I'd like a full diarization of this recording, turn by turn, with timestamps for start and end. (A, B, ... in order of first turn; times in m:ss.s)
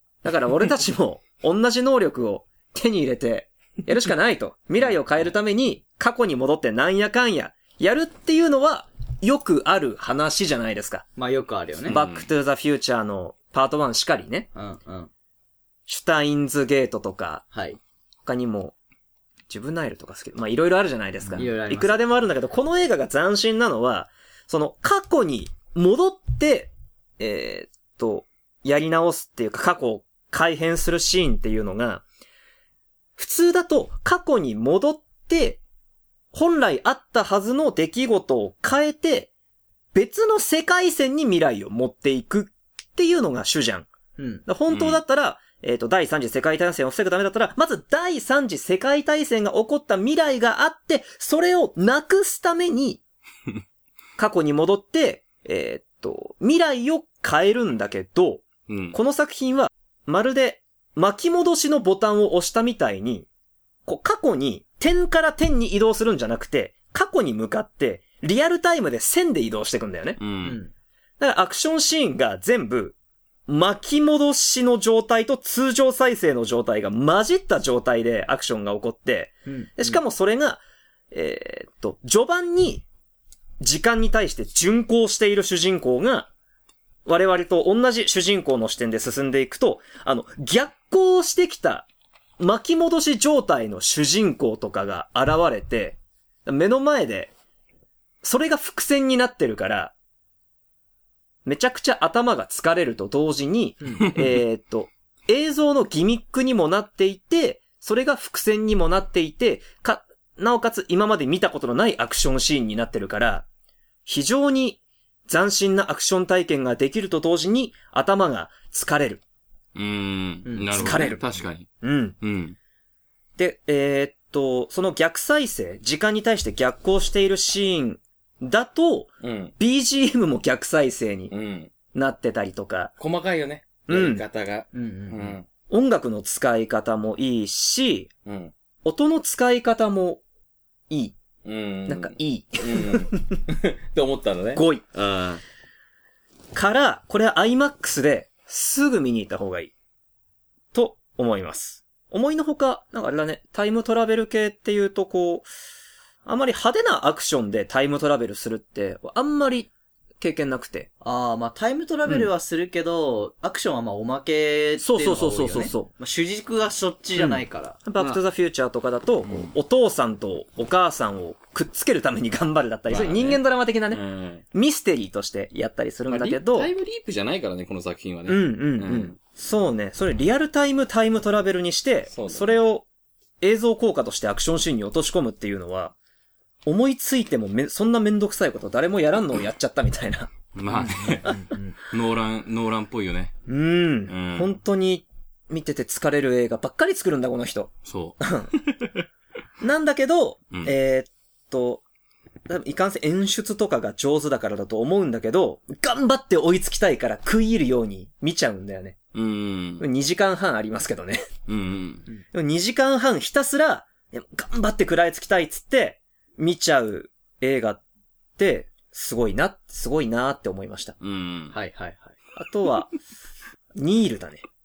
0:00.2-0:11.0 A
0:11.2-0:12.0 B
0:11.9-0:14.5 A
0:11.9-0:12.2 C
0:14.5-0:15.1 B
0:15.9-0:17.4 A
0:17.5-0:17.8 B
0:18.2-0:18.7 A
0:19.5-0:32.0 A
0:21.3-0:22.0 B
0:33.2-0:35.6 A
0:36.3-0:39.3 A
0:39.9-0:43.9 A
0:44.2-0:44.4 B
0:44.4-0:53.0 A
0:44.7-0:45.0 C
0:54.2-1:03.3 A
0:58.7-0:59.0 C
1:03.8-1:10.2 A
1:10.2-1:10.6 C
1:10.4-1:10.7 B
1:11.2-1:13.0 A
1:13.5-1:22.8 A
1:19.5-1:20.0 B
1:23.6-1:26.3 A
1:27.0-1:31.9 A
1:32.4-1:37.3 A
1:38.2-1:39.9 A
1:41.4-1:53.4 A
1:44.0-1:44.4 C
1:54.0-1:59.2 A
1:59.7-2:01.7 C
2:00.4-2:01.1 B
2:00.8-2:01.2 A
2:01.8-2:02.2 A
2:02.2-2:02.6 C
2:03.4-2:11.3 A
2:09.2-2:09.5 C
2:11.3-2:11.7 C
2:11.9-2:12.9 A
2:13.0-2:15.4 C
2:13.9-2:14.2 A
2:14.7-2:15.4 B
2:15.7-2:18.1 A
2:18.2-2:18.5 C
2:18.8-2:20.2 A
2:20.9-2:21.1 A
2:21.4-2:25.4 C
2:21.9-2:23.4 A
2:24.5-2:24.8 A
2:26.5-2:29.7 A
2:30.7-2:35.5 A
2:36.2-2:40.9 A
2:41.0-2:47.8 B
2:44.8-2:45.9 A
2:47.2-2:54.0 A
2:52.9-2:54.4 C
2:54.5-2:56.7 A
2:56.1-2:59.2 C
2:58.3-3:02.8 A
3:02.1-3:02.6 C
3:03.4-3:05.9 A
3:06.6-3:11.5 A
3:10.5-3:13.4 C
3:13.5-3:18.5 A
3:14.1-3:14.5 C
3:17.8-3:19.0 C
3:19.6-3:21.8 A
3:22.5-3:29.0 A
3:29.1-3:29.8 C
3:29.8-3:31.3 A
3:31.5-3:32.1 C
3:32.1-3:37.8 A
3:38.4-3:41.0 A
3:41.0-3:41.6 C
3:41.5-3:42.1 B
3:42.4-3:42.9 A
3:43.7-3:44.4 A